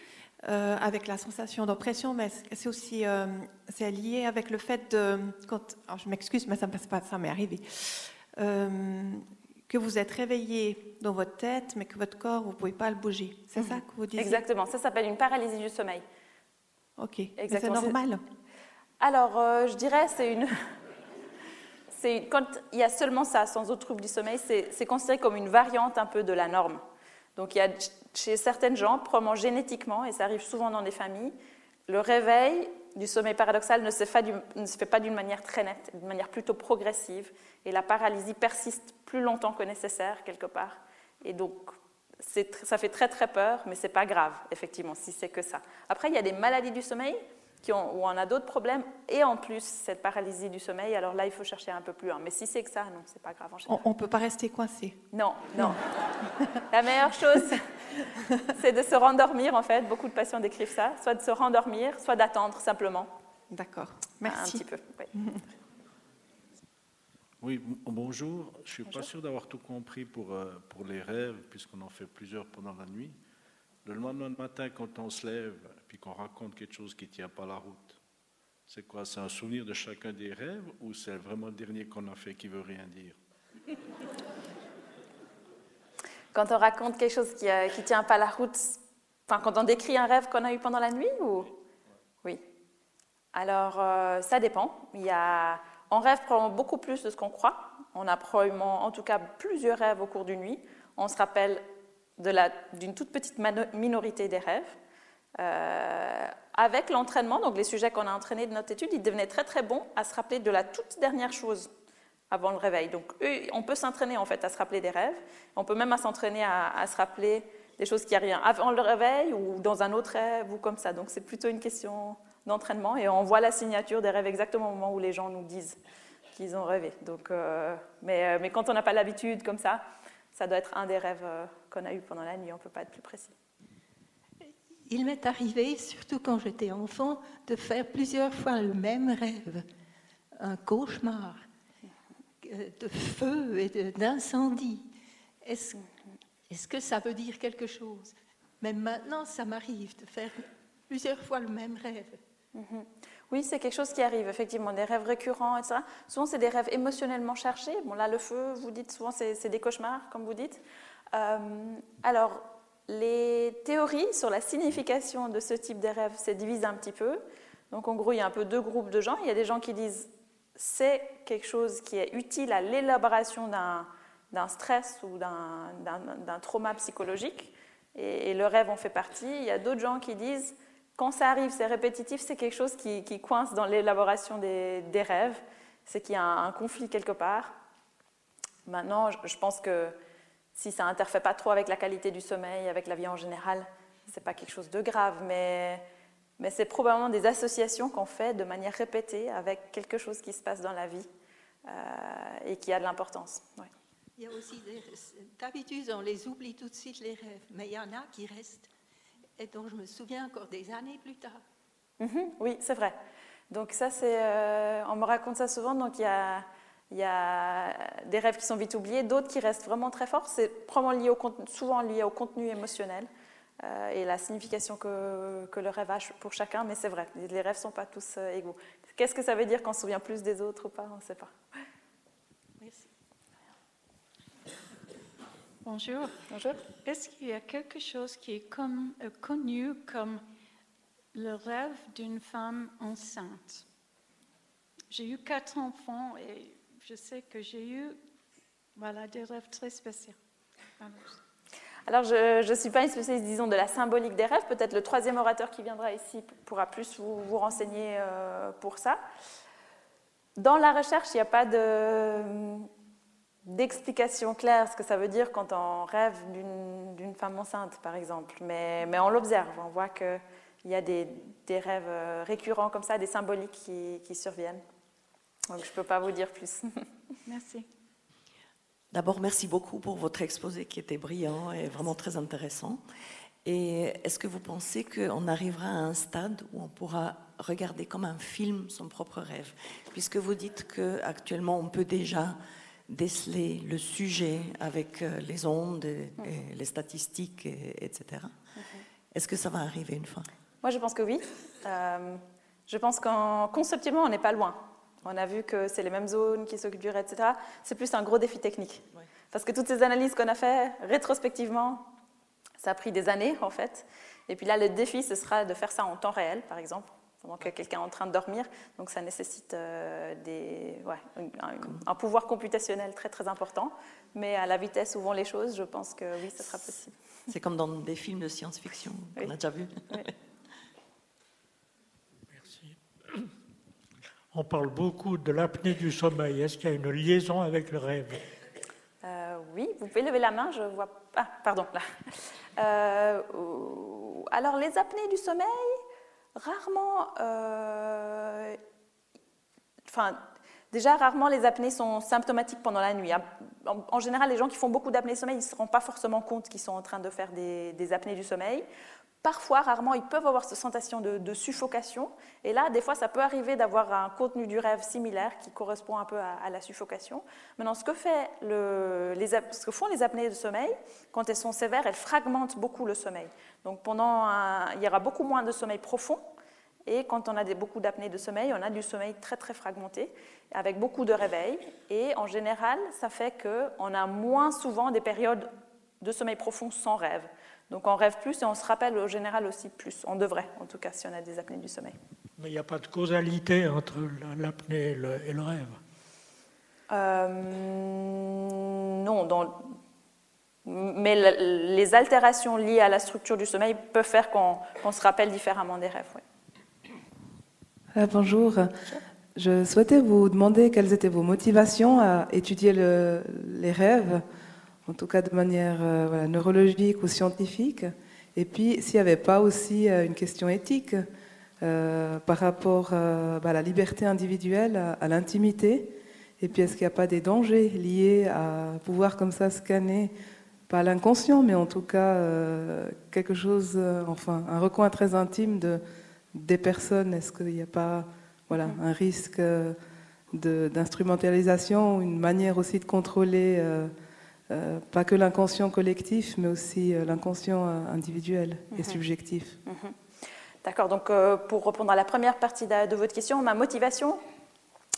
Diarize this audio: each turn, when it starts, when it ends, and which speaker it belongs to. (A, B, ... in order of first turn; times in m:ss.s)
0:00.4-0:14.4 A
0:13.6-0:16.0 B
0:17.0-0:18.2 A
0:17.4-0:18.0 B
0:19.0-0:20.6 B
0:21.9-0:26.8 B
0:27.4-0:31.4 B
0:31.9-0:53.8 B
0:53.7-0:55.0 A
0:55.1-0:55.8 B
0:55.5-0:55.8 A
0:56.7-0:57.7 B
0:58.5-1:03.1 B
1:03.5-1:05.4 A
1:04.2-1:05.1 B
1:07.4-1:13.2 C
1:13.8-1:18.0 C
1:18.7-1:23.2 C
1:26.3-1:31.6 B
1:33.3-1:41.7 B
1:42.2-1:44.8 B
1:45.4-1:51.7 B
1:52.3-2:05.8 B
2:06.4-2:13.3 B
2:14.9-2:19.6 D
2:20.4-2:21.4 D
2:22.4-2:24.9 D
2:25.4-2:25.8 D
2:26.5-2:32.2 D
2:32.5-3:07.6 B
3:08.7-3:10.0 B
3:10.6-3:15.8 B
3:16.4-3:21.1 B
3:21.6-3:23.7 B
3:24.2-3:28.7 D
3:29.4-3:31.4 D
3:32.0-3:33.0 B
3:33.5-3:43.1 B
3:43.6-3:51.4 B
3:52.6-3:52.9 E
3:55.6-3:56.2 E
3:56.3-3:56.6 B
3:56.7-4:00.2 E
4:01.1-4:03.6 E
4:04.9-4:08.0 E
4:08.8-4:10.2 E
4:10.8-4:11.2 E
4:11.9-4:19.0 B
4:20.4-4:22.7 B
4:23.5-4:34.6 B
4:35.5-4:36.8 B
4:37.3-4:37.7 E
4:38.9-4:42.8 F
4:43.4-4:52.4 F
4:52.9-4:58.4 F
4:59.1-5:00.3 F
5:00.6-5:11.9 B
5:12.6-5:27.0 B
5:27.3-5:30.1 F
5:32.4-5:32.8 G
5:34.3-5:38.2 G
5:39.0-5:45.8 B
5:46.4-5:48.6 B
5:49.9-5:50.2 B
5:50.7-5:58.7 B
5:59.2-6:16.2 B
6:16.9-6:25.5 B
6:26.0-6:32.0 B
6:32.4-6:35.8 G
6:36.9-6:39.8 B
6:40.6-6:46.2 B
6:48.0-6:48.7 H
6:49.4-6:54.2 H
6:54.9-7:01.1 H
7:01.6-7:10.1 H
7:10.7-7:15.8 H
7:16.3-7:19.8 H
7:20.3-7:23.9 H
7:24.5-7:29.6 H
7:28.7-7:29.0 B
7:29.6-7:30.0 B
7:30.6-7:34.2 B